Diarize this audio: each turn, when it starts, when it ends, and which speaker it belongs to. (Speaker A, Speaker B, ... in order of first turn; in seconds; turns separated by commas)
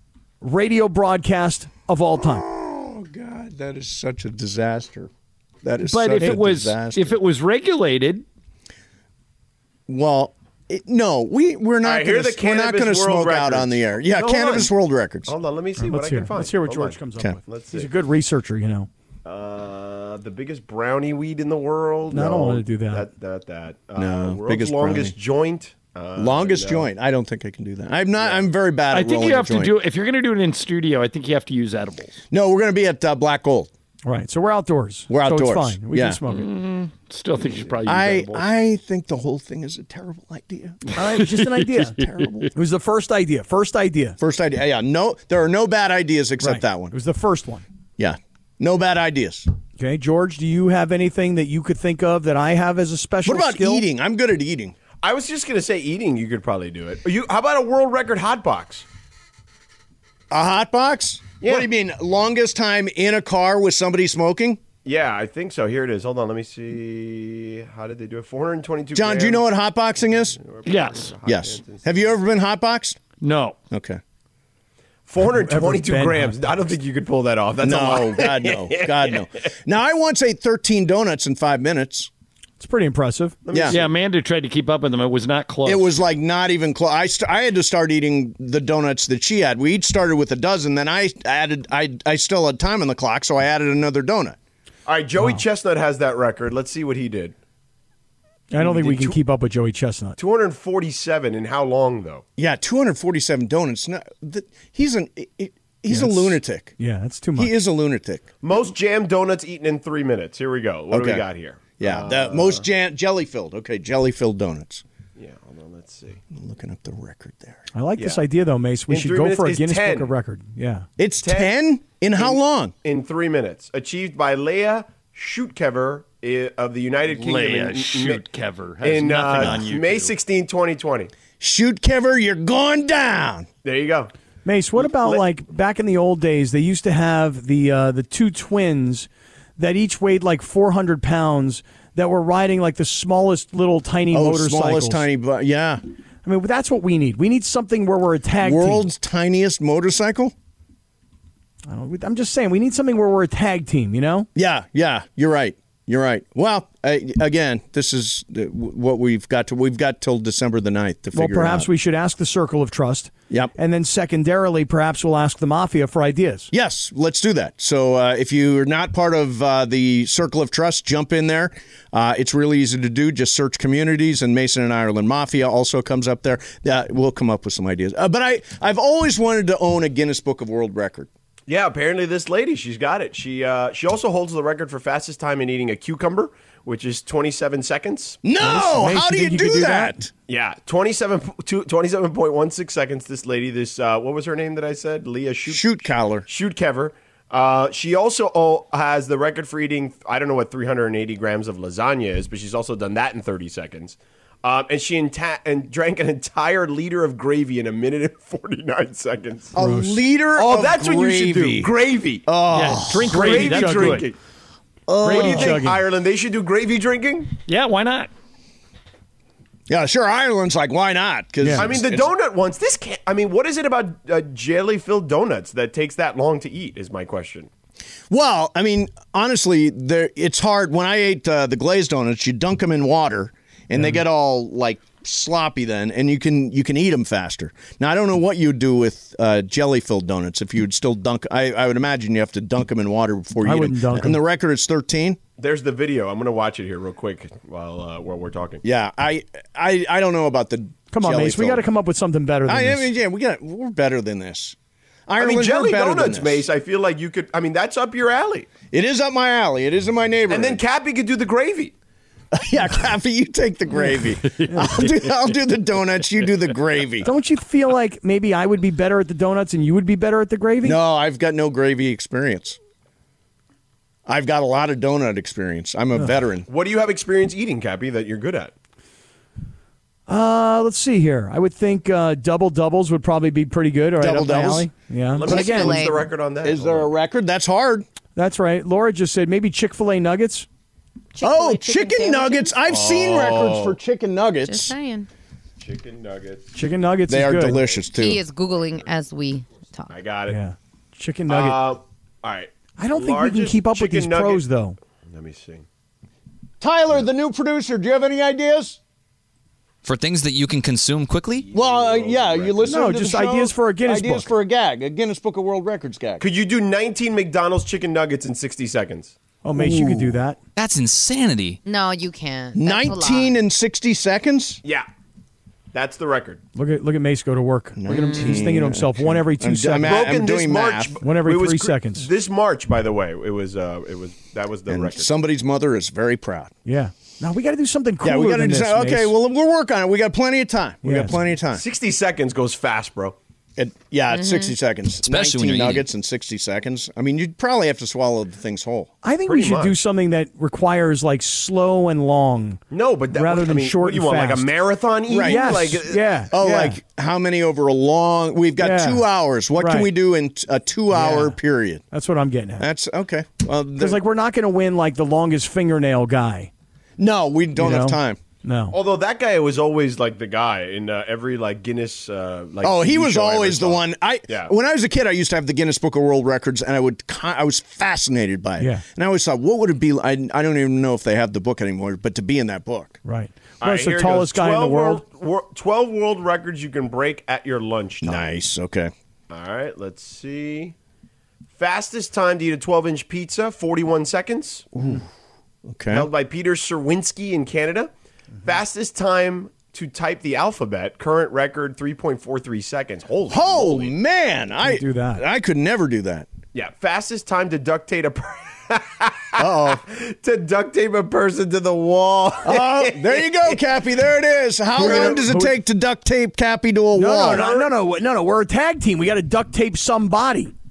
Speaker A: 0.4-2.5, Speaker B: 2.2-5.1, Speaker B: 5.6-7.2, Speaker C: 5.8-8.2, Speaker B: 9.9-15.3, Speaker D: 11.8-14.7, Speaker D: 15.3-17.9, Speaker A: 15.8-18.9, Speaker D: 19.2-26.9, Speaker A: 22.1-23.1, Speaker B: 24.0-25.1, Speaker B: 26.2-29.8, Speaker D: 28.2-28.5, Speaker C: 28.9-32.2, Speaker B: 32.3-33.7, Speaker A: 34.1-36.5, Speaker B: 35.1-36.2, Speaker C: 36.3-38.5, Speaker B: 37.9-41.0, Speaker A: 41.0-42.0, Speaker C: 41.2-42.5, Speaker B: 41.9-42.5, Speaker A: 42.5-44.2, Speaker B: 44.2-46.9, Speaker A: 46.4-47.6, Speaker B: 48.0-49.5, Speaker A: 49.8-53.8, Speaker B: 53.2-54.8, Speaker D: 55.0-58.9, Speaker B: 60.3-64.6, Speaker D: 61.4-61.7, Speaker D: 64.8-69.5, Speaker B: 69.0-70.4, Speaker D: 70.3-72.2, Speaker C: 70.7-71.1, Speaker B: 71.2-73.0, Speaker C: 73.2-73.6, Speaker B: 73.7-74.0, Speaker D: 75.1-79.2, Speaker A: 75.3-76.4, Speaker B: 77.6-82.1, Speaker A: 82.6-83.4, Speaker D: 83.5-83.9, Speaker B: 83.5-83.8, Speaker C: 83.7-85.9, Speaker B: 85.7-94.4, Speaker D: 94.9-97.3, Speaker A: 95.2-95.4, Speaker A: 98.5-100.2, Speaker D: 98.6-99.2, Speaker D: 100.2-102.2, Speaker B: 102.4-106.7, Speaker A: 105.9-107.5, Speaker B: 107.4-108.3, Speaker D: 108.4-112.7, Speaker B: 110.9-111.2, Speaker B: 111.8-114.8, Speaker D: 115.2-116.2, Speaker B: 116.3-117.7, Speaker A: 117.7-120.9, Speaker D: 118.0-118.2, Speaker D: 118.9-120.1, Speaker B: 121.0-122.7, Speaker D: 121.2-128.2, Speaker C: 127.1-130.2, Speaker D: 128.8-131.1, Speaker B: 131.4-133.5, Speaker D: 133.6-134.1, Speaker A: 134.4-145.1, Speaker D: 134.8-135.2, Speaker B: 144.1-145.8, Speaker A: 146.2-148.8, Speaker B: 148.4-150.3, Speaker A: 151.7-154.3, Speaker B: 154.3-161.7, Speaker A: 161.1-166.5, Speaker B: 166.5-181.1, Speaker D: 181.5-188.2, Speaker B: 188.2-190.1, Speaker A: 188.4-189.9, Speaker D: 190.3-195.7, Speaker B: 195.5-196.3, Speaker D: 196.3-209.5, Speaker B: 209.5-211.7, Speaker A: 209.6-210.0, Speaker D: 210.3-212.3, Speaker B: 212.3-213.3, Speaker C: 212.5-214.1, Speaker A: 213.1-214.1, Speaker D: 213.1-214.2, Speaker B: 214.9-215.6, Speaker A: 215.0-215.8, Speaker D: 215.0-217.3, Speaker C: 217.5-218.1, Speaker B: 219.7-222.1, Speaker A: 221.4-221.7, Speaker D: 221.6-227.5, Speaker B: 228.1-245.2, Speaker A: 233.8-234.0, Speaker A: 243.4-244.2, Speaker D: 245.4-248.6, Speaker B: 248.6-251.6, Speaker A: 250.9-252.9, Speaker B: 252.5-254.6, Speaker B: 255.1-256.4, Speaker D: 255.2-258.5, Speaker B: 258.7-260.6, Speaker D: 260.3-261.7, Speaker B: 262.3-267.1, Speaker A: 264.5-264.8, Speaker A: 267.1-270.8, Speaker B: 270.6-272.6, Speaker B: 274.1-276.5, Speaker D: 276.5-278.5, Speaker A: 280.1-285.8, Speaker B: 284.0-284.7, Speaker D: 285.1-286.9, Speaker E: 285.2-286.1, Speaker B: 286.4-287.9, Speaker A: 288.2-290.5, Speaker E: 291.2-292.5, Speaker B: 291.2-294.8, Speaker D: 292.6-293.8, Speaker E: 294.5-295.1, Speaker D: 295.6-296.5, Speaker A: 296.6-297.6, Speaker B: 297.1-298.2, Speaker D: 297.5-297.9, Speaker E: 297.9-299.9, Speaker D: 299.9-300.4, Speaker A: 300.3-301.6, Speaker D: 301.3-304.4, Speaker A: 302.8-304.8, Speaker D: 305.1-305.7, Speaker B: 306.6-308.8, Speaker F: 309.8-311.5, Speaker D: 311.4-312.8, Speaker B: 311.5-316.2, Speaker A: 312.7-314.3, Speaker D: 316.2-319.1, Speaker A: 319.4-320.4, Speaker B: 319.6-320.2, Speaker F: 320.6-321.6, Speaker E: 321.6-323.4, Speaker B: 322.6-324.6, Speaker D: 325.7-326.4, Speaker A: 326.6-330.1, Speaker B: 327.8-330.9, Speaker D: 329.8-335.1, Speaker A: 331.0-332.1, Speaker B: 334.7-336.5, Speaker A: 336.7-339.1, Speaker B: 338.0-341.6, Speaker A: 340.8-341.2, Speaker D: 341.5-343.2, Speaker B: 343.6-348.9, Speaker E: 344.1-344.5, Speaker F: 345.0-345.9, Speaker A: 349.0-352.6, Speaker D: 349.3-349.8, Speaker D: 352.7-356.2, Speaker A: 353.1-354.5, Speaker B: 355.1-355.5, Speaker A: 355.1-356.8, Speaker B: 356.3-361.8, Speaker A: 358.6-359.0, Speaker A: 359.6-359.9, Speaker A: 360.9-361.4, Speaker A: 361.9-362.7, Speaker B: 362.6-364.0, Speaker A: 363.8-366.5, Speaker B: 367.0-368.2, Speaker A: 367.6-368.8, Speaker D: 368.7-374.5, Speaker B: 372.6-383.0, Speaker A: 378.6-378.8, Speaker A: 383.1-385.0, Speaker D: 383.6-388.2, Speaker B: 388.0-388.9, Speaker D: 389.3-390.8, Speaker D: 391.6-395.0, Speaker B: 395.7-396.1, Speaker D: 395.9-397.9, Speaker D: 398.4-403.9, Speaker B: 403.3-406.3, Speaker A: 404.6-405.2, Speaker D: 406.5-413.6, Speaker B: 409.4-409.8, Speaker B: 412.4-417.5, Speaker D: 414.8-415.3, Speaker A: 414.8-415.6, Speaker A: 416.9-420.5, Speaker D: 417.2-417.7